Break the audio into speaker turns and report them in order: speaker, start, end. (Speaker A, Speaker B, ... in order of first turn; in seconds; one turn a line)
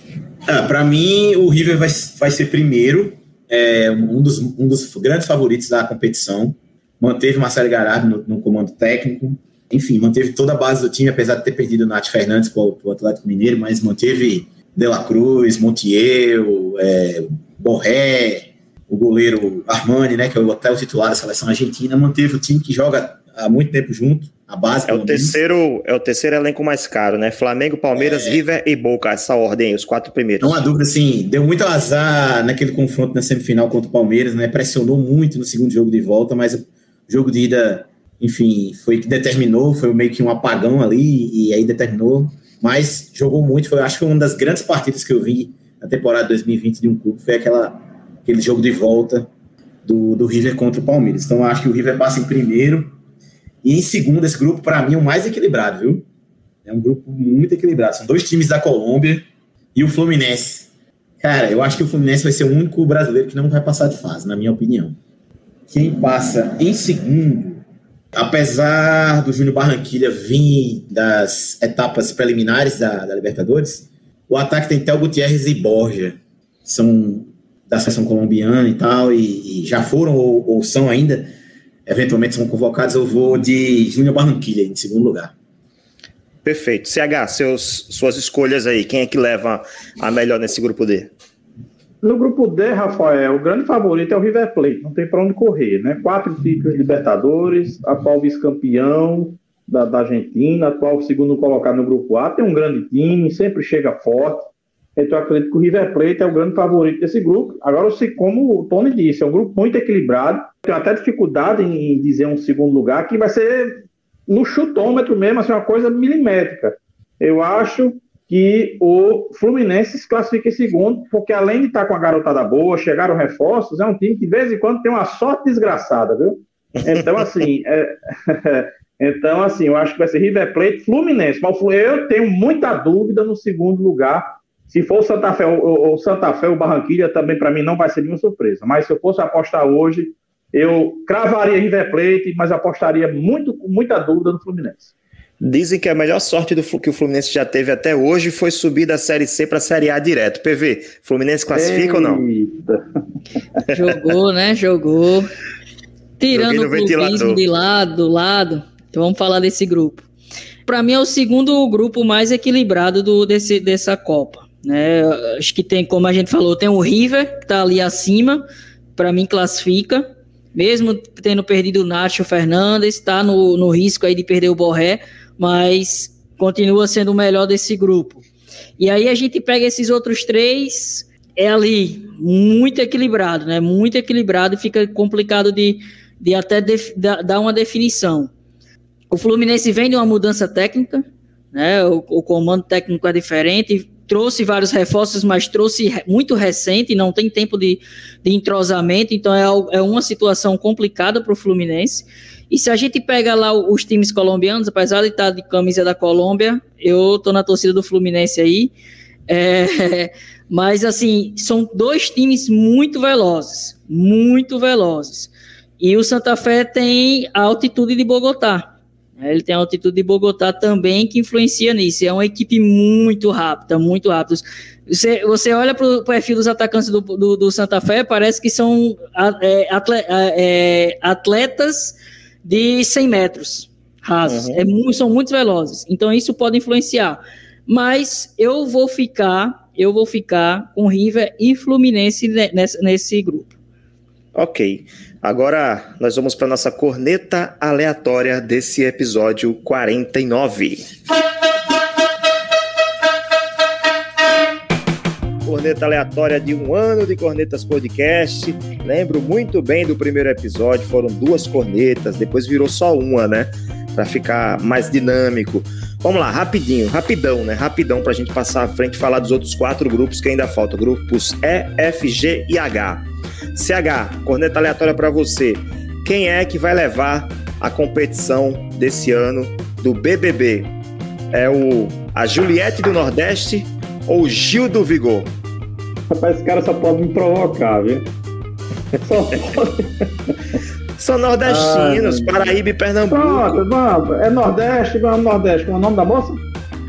Speaker A: 0.5-25.3
Speaker B: 24.9-30.6
Speaker A: 27.9-28.4
Speaker A: 30.4-49.3
Speaker A: 49.8-52.9
Speaker A: 53.6-56.0
Speaker A: 56.6-60.7
Speaker A: 61.2-65.0
Speaker A: 65.7-67.6
Speaker A: 68.1-81.3
Speaker A: 81.8-85.3
Speaker B: 86.4-91.1
Speaker C: 92.0-144.9
Speaker B: 126.8-127.0
Speaker B: 145.4-152.2
Speaker C: 151.5-152.8
Speaker D: 153.7-155.3
Speaker D: 156.2-160.1
Speaker B: 156.3-157.4
Speaker D: 160.7-168.4
Speaker D: 168.9-178.2
Speaker D: 178.8-188.3
Speaker D: 189.1-208.7
Speaker D: 209.3-243.5
Speaker B: 234.3-234.6
Speaker B: 244.3-250.9
Speaker B: 255.4-273.0
Speaker B: 273.5-280.7
Speaker B: 281.3-285.3
Speaker C: 286.1-288.1
Speaker C: 289.0-290.6
Speaker B: 291.0-293.6
Speaker C: 291.4-292.5
Speaker C: 293.1-296.4